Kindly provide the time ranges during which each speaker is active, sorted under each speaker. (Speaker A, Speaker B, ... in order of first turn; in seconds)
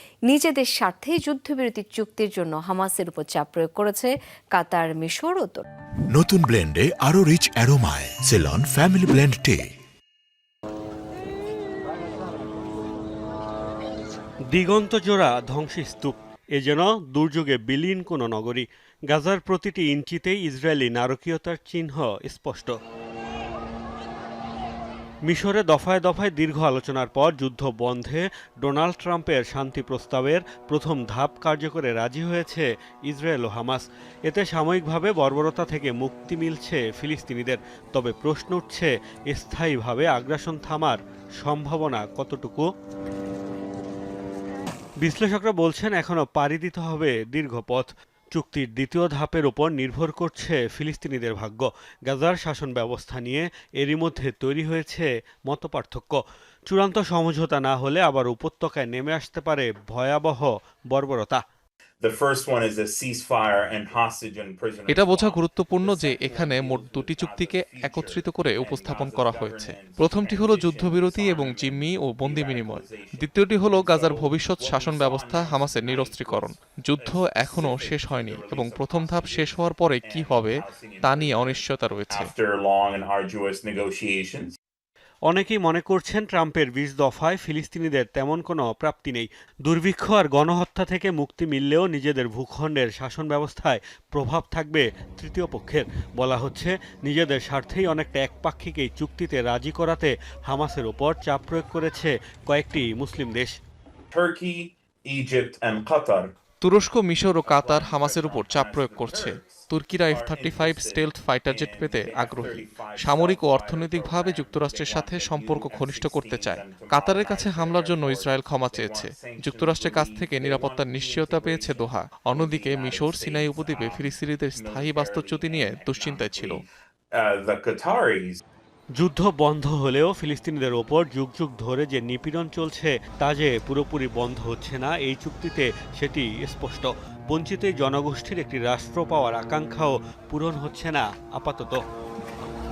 Speaker A: 0.3-5.6
Speaker B: 6.1-9.7
Speaker C: 14.5-22.7, 25.3-42.7, 45.0-61.4, 85.3-103.5, 128.9-141.8
Speaker D: 62.0-84.5, 104.1-106.3, 107.5-128.4
Speaker E: 64.9-82.3, 106.6-126.6